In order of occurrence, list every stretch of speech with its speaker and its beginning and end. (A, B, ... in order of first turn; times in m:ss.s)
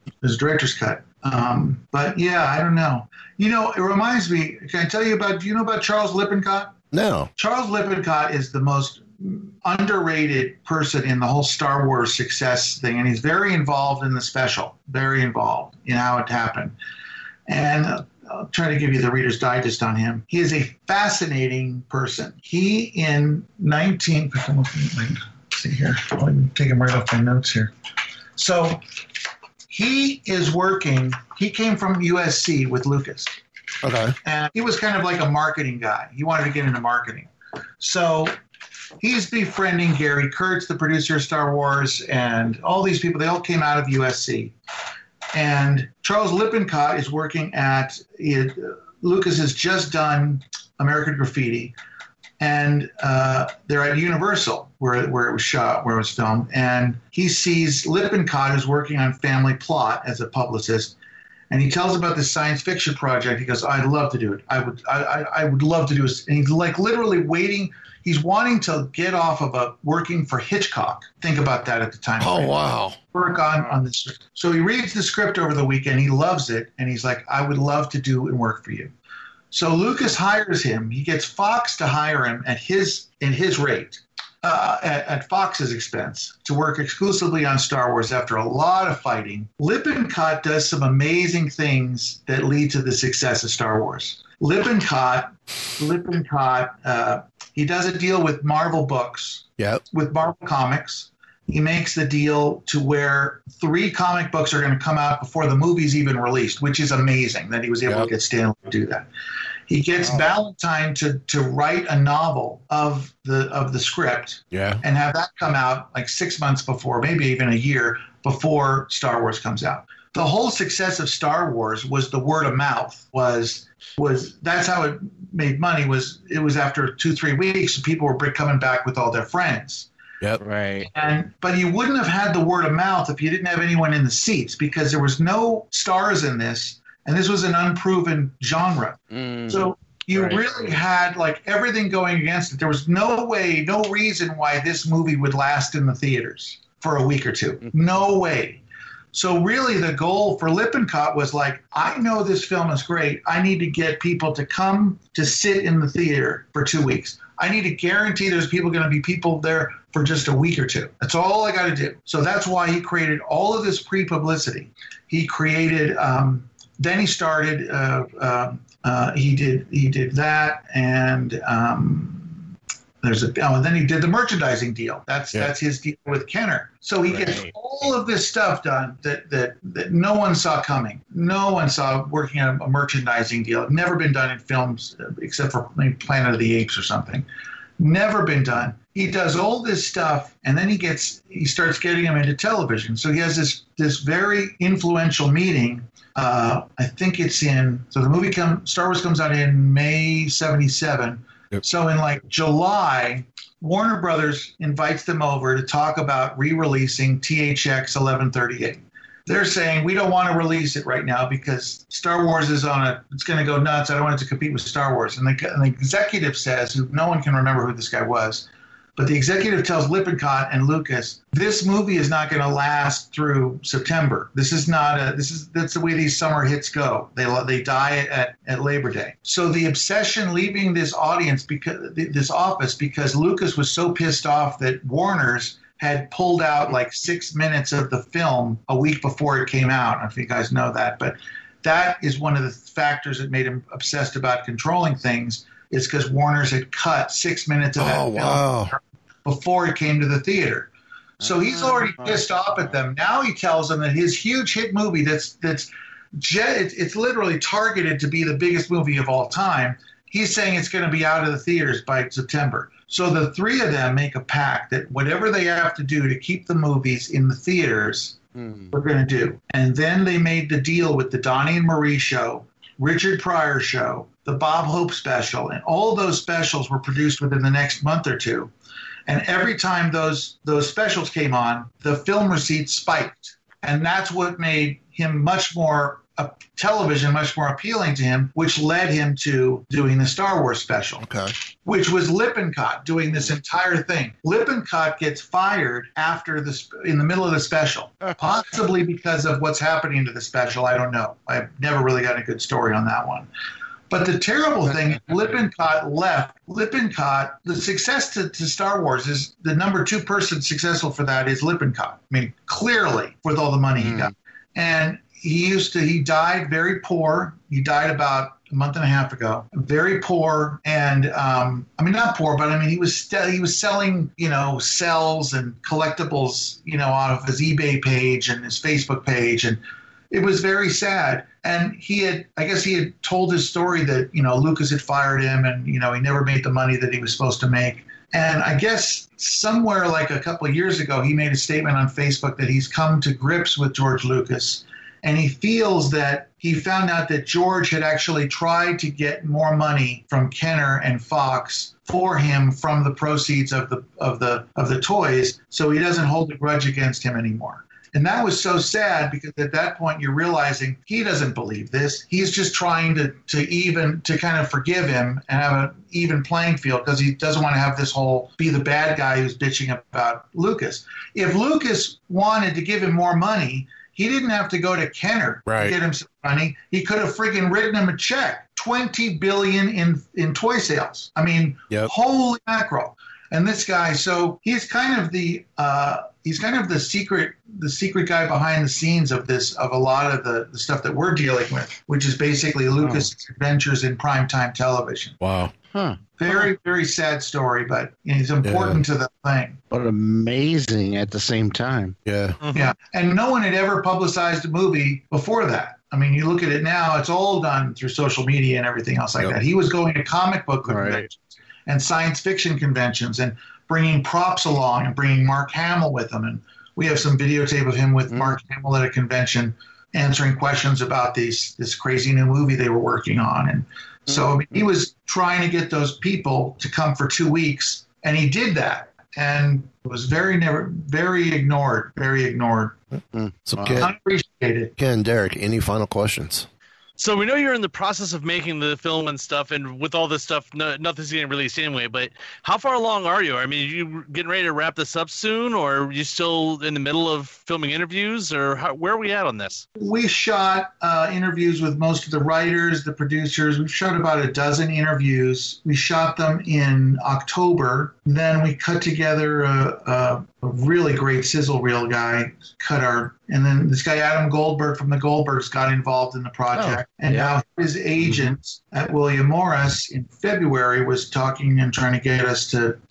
0:00.2-0:06.7 A
0:06.9-0:07.3 B
0:07.4-0:16.7 A
0:17.5-0:27.7 A
0:28.4-0:28.8 A
0:29.7-0:33.3 A
0:33.8-0:34.2 B
0:34.2-0:37.3 A
0:37.8-0:38.4 A
0:39.0-0:44.5 A
0:45.3-0:51.7 A
0:52.4-1:00.9 A
1:01.5-1:12.5 A
1:12.2-1:13.0 B
1:13.1-1:18.9 A
1:19.5-1:49.1 A
1:49.7-2:09.9 A
1:54.5-1:54.8 B
2:10.4-2:10.9 C
2:10.8-2:52.4 A
2:19.1-2:20.7 C
2:53.0-3:07.2 A
2:57.1-2:57.5 C
3:07.8-4:10.7 A
4:07.8-4:08.7 B
4:11.2-4:12.7 C
4:11.2-4:28.2 A
4:28.4-4:28.7 C
4:28.7-4:38.5 A
4:39.1-4:51.1 A
4:51.0-4:51.3 B
4:51.6-5:03.3 A
5:03.9-6:35.2 A
5:13.8-5:14.1 C
6:15.4-6:15.7 B
6:32.8-6:33.1 C
6:35.2-6:35.5 B
6:35.7-6:36.4 C
6:36.2-6:39.6 A
6:38.4-6:38.8 B
6:39.7-6:42.0 C
6:42.0-6:42.4 B
6:42.4-6:42.7 D
6:42.5-7:12.8 A
6:50.6-6:51.0 C
6:58.1-6:58.4 C
7:13.1-7:13.9 C
7:13.4-7:13.9 B
7:13.8-7:14.7 A
7:14.8-7:16.5 B
7:17.0-7:29.6 D
7:29.8-7:52.8 A
7:46.5-7:47.3 C